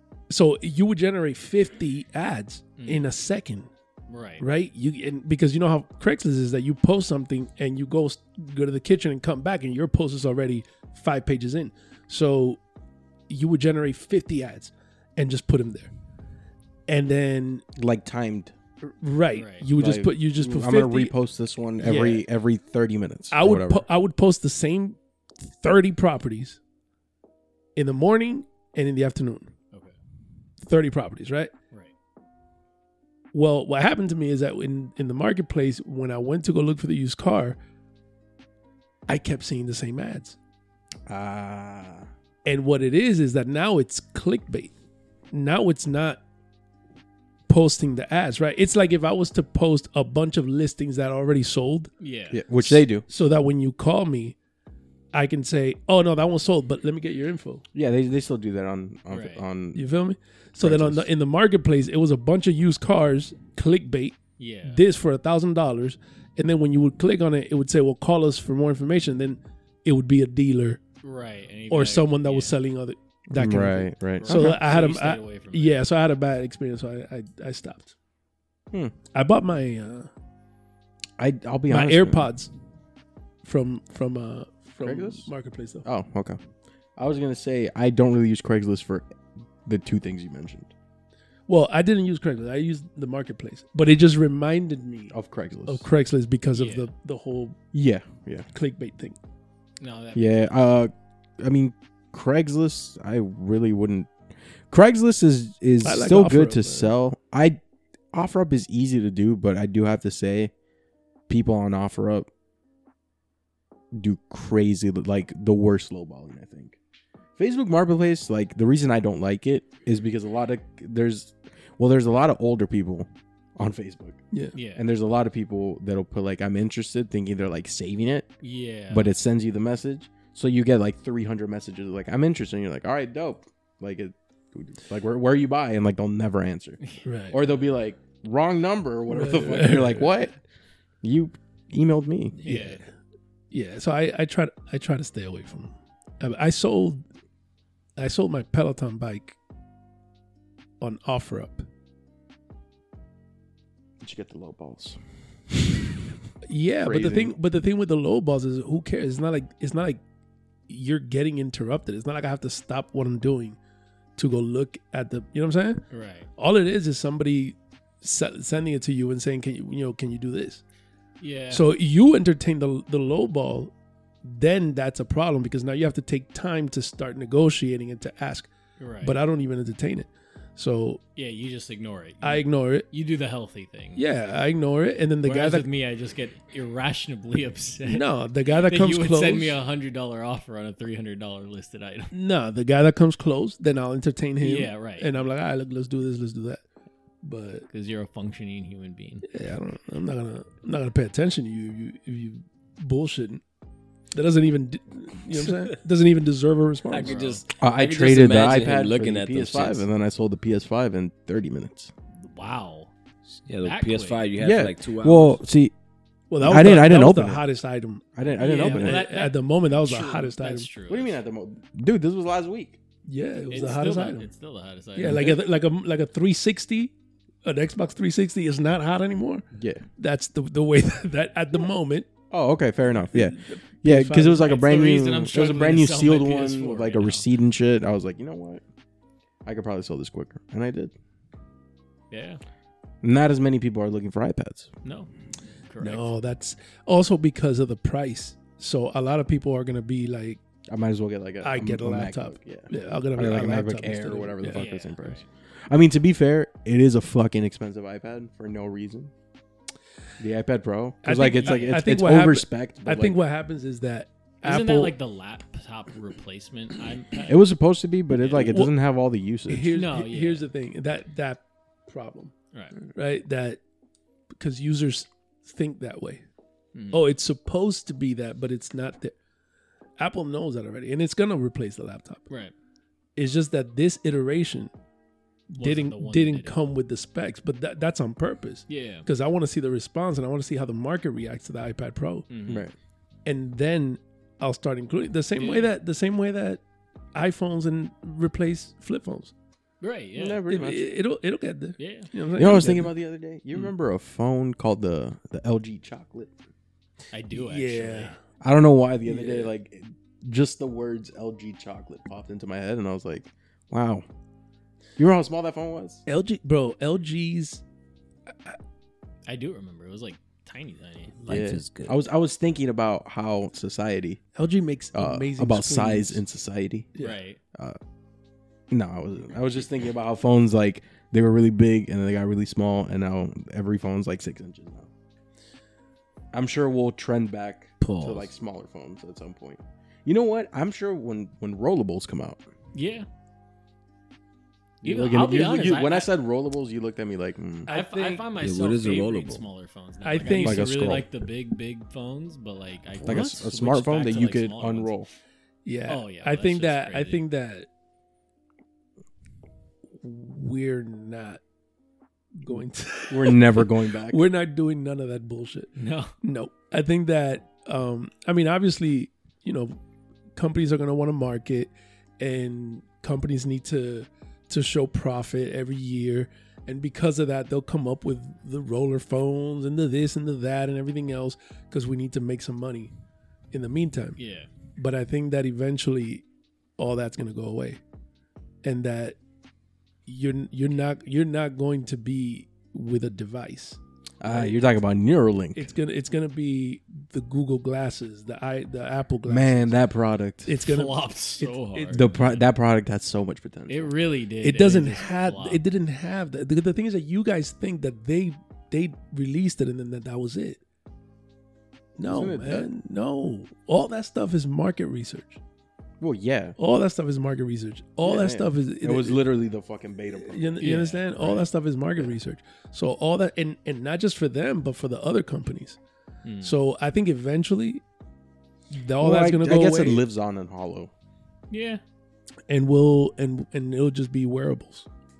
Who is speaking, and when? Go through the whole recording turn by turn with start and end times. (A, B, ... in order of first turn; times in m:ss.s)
0:00.3-0:03.7 A
0:02.8-0:03.1 B
0:04.1-0:04.4 B
0:04.4-0:12.6 A
0:13.3-0:15.9 A
0:16.9-0:17.6 A
0:17.8-0:18.6 C
0:18.8-0:21.1 A
0:19.3-0:19.7 B
0:19.8-0:23.9 C
0:21.8-0:22.3 A
0:23.3-0:26.6 A
0:27.8-0:29.5 A
0:30.6-0:31.5 A
0:33.3-0:37.6 A
0:39.1-0:40.4 A
0:41.1-0:42.1 C
0:42.4-0:44.7 A
0:45.3-0:46.2 A
0:47.5-0:51.9 A
0:52.0-0:52.4 B
0:52.3-0:53.0 C
0:52.6-0:54.4 A
0:55.1-0:57.6 A
0:57.7-0:59.8 C
0:59.1-0:59.4 B
0:59.8-1:10.8 A
1:00.6-1:01.1 C
1:04.4-1:04.8 B
1:11.0-1:12.6 B
1:11.7-1:17.9 A
1:13.3-1:14.6 C
1:14.2-1:15.8 B
1:19.1-1:20.1 A
1:21.2-1:22.3 C
1:21.7-1:22.5 A
1:23.4-1:25.9 A
1:24.8-1:25.3 C
1:25.8-1:26.4 C
1:27.0-1:29.1 C
1:29.6-1:30.7 C
1:31.5-1:35.1 A
1:35.1-1:35.9 C
1:35.7-1:37.6 A
1:36.5-1:36.9 B
1:37.7-1:38.5 C
1:38.5-1:39.2 A
1:39.8-1:40.5 B
1:40.1-1:44.1 C
1:44.7-1:47.6 C
1:45.8-1:46.9 A
1:48.1-1:50.5 C
1:51.3-1:52.3 C
1:53.9-1:56.8 C
1:57.4-2:04.2 C
2:04.5-2:04.9 B
2:04.7-2:08.3 C
2:08.4-2:09.1 B
2:08.9-2:20.4 C
2:17.0-2:17.4 A
2:19.1-2:20.3 A
2:21.0-2:22.4 C
2:22.4-2:22.8 A
2:22.4-2:22.8 B
2:23.5-2:27.0 A
2:28.0-2:29.4 A
2:30.8-2:31.6 A
2:34.0-2:35.0 C
2:36.5-2:40.0 A
2:36.8-2:37.4 C
2:40.7-2:43.6 A
2:44.2-2:45.8 A
2:45.9-2:46.3 B
2:46.4-2:50.6 A
2:51.2-2:51.7 B
2:51.5-2:53.7 A
2:54.2-2:58.5 A
2:58.8-2:59.2 B
2:59.0-3:01.0 A
3:01.2-3:04.0 B
3:02.2-3:02.9 A
3:04.0-3:05.7 A
3:05.2-3:12.1 B
3:07.9-3:09.6 A
3:12.1-3:16.6 A
3:14.4-3:15.1 B
3:17.2-3:17.7 A
3:17.7-3:19.3 B
3:19.3-3:23.4 A
3:24.1-3:27.2 A
3:26.9-3:29.8 D
3:27.0-3:27.4 B
3:27.6-3:31.9 C
3:32.2-3:32.9 B
3:33.4-3:35.4 D
3:33.6-3:34.2 B
3:34.4-3:35.7 C
3:36.3-3:40.7 A
3:36.4-3:37.4 C
3:38.2-3:39.1 C
3:38.4-3:41.2 B
3:40.9-3:42.8 C
3:43.1-3:44.3 A
3:43.5-3:45.4 B
3:45.0-3:46.9 A
3:45.0-3:45.4 C
3:47.4-3:49.5 A
3:49.5-3:49.8 C
3:50.0-3:52.1 A
3:52.3-3:58.6 C
3:53.0-3:54.6 A
3:54.4-3:57.3 B
3:59.4-4:00.9 C
4:02.1-4:02.4 B
4:03.0-4:04.7 C
4:04.8-4:05.1 B
4:05.7-4:06.1 B
4:05.8-4:10.4 A
4:10.7-4:19.1 C
4:11.4-4:14.6 A
4:14.5-4:15.2 B
4:20.2-4:23.2 C
4:21.0-4:25.0 A
4:21.4-4:21.8 B
4:24.4-4:27.5 B
4:27.3-4:29.8 C
4:28.1-4:28.5 B
4:28.3-4:28.7 A
4:29.5-4:32.3 A
4:29.7-4:30.5 B
4:32.9-4:33.6 A
4:34.4-4:36.2 A
4:36.8-4:37.1 B
4:36.9-4:39.2 A
4:40.0-4:42.2 A
4:43.2-4:44.7 A
4:45.6-4:52.3 A
4:45.6-4:46.6 B
4:48.7-4:49.1 B
4:52.3-4:52.7 B
4:52.5-4:52.7 C
4:53.2-4:56.6 A
4:55.4-4:55.7 B
4:57.1-4:59.3 A
4:59.8-5:00.5 B
5:00.2-5:00.9 C
5:00.5-5:02.9 A
5:01.8-5:02.1 B
5:02.4-5:06.3 C
5:07.1-5:08.2 B
5:07.3-5:08.2 A
5:08.4-5:14.0 C
5:09.1-5:09.5 A
5:15.0-5:16.0 C
5:16.1-5:17.6 A
5:19.3-5:21.2 B
5:21.2-5:22.0 D
5:21.3-5:24.2 C
5:24.4-5:26.2 A
5:24.9-5:27.0 C
5:27.0-5:27.4 B
5:28.7-5:34.9 C
5:36.3-5:42.4 C
5:37.8-5:38.3 D
5:42.7-5:43.1 B
5:44.8-5:47.7 C
5:44.8-5:46.1 B
5:47.7-5:48.3 A
5:47.7-5:55.0 B
5:48.4-5:49.4 D
5:50.0-5:51.0 A
5:50.3-5:51.1 C
5:53.0-5:55.1 C
5:55.6-5:57.7 A
5:55.9-5:57.2 B
6:00.0-6:01.4 A
6:02.4-6:09.8 A
6:03.1-6:04.2 C
6:05.8-6:06.1 B
6:10.4-6:22.9 A
6:23.5-6:24.2 A
6:24.2-6:24.5 B
6:24.8-6:26.2 A
6:26.8-6:27.8 A
6:28.6-6:29.2 A
6:30.1-6:34.6 A
6:34.2-6:35.7 C
6:35.6-6:39.8 A
6:39.3-6:40.6 C
6:40.5-6:42.1 A
6:40.6-6:42.5 B
6:41.9-6:43.9 C
6:43.7-6:45.6 B
6:44.4-6:50.6 A
6:52.0-6:55.4 A
6:52.0-6:52.7 C
6:56.0-6:56.6 C
6:56.6-6:59.2 A
6:58.0-7:00.7 C
7:00.2-7:05.8 A
7:00.6-7:01.5 B
7:06.2-7:06.6 B
7:06.4-7:07.8 A
7:08.7-7:10.0 A
7:09.0-7:10.9 C
7:11.5-7:11.8 B
7:12.5-7:14.9 A